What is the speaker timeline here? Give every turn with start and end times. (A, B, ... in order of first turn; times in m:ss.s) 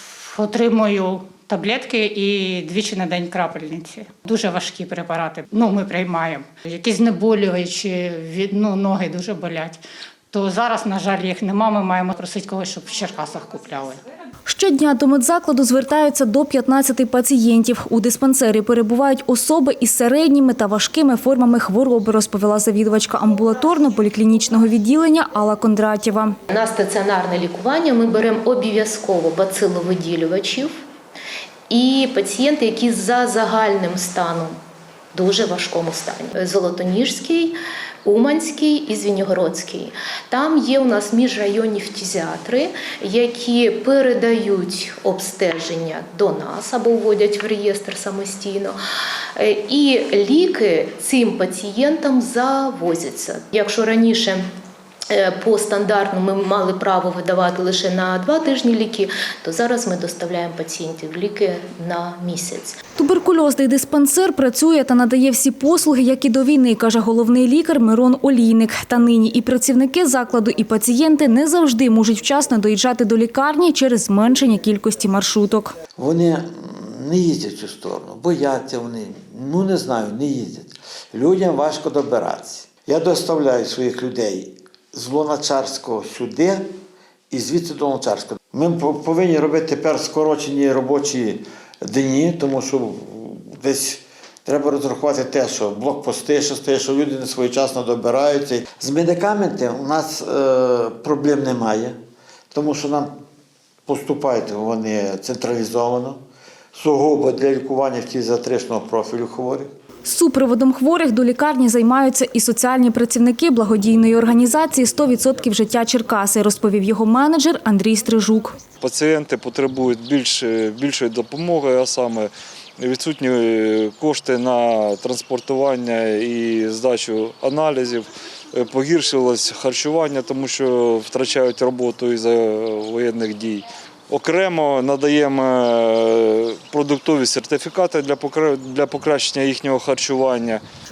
0:00.3-0:09.8 A
0:10.3-0:14.0 A
0:14.5-0:26.4 B
0:26.5-0:30.8 C
0:31.7-0:34.5 C
0:35.1-0:48.8 C
0:49.4-0:54.4 C
0:55.1-1:02.8 C
1:03.0-1:15.7 B
1:16.0-1:26.6 D
1:27.3-1:42.0 D
1:42.5-1:43.1 D
1:43.9-1:46.2 D
1:46.7-1:49.7 D
1:50.0-1:58.5 B
1:58.8-2:20.6 E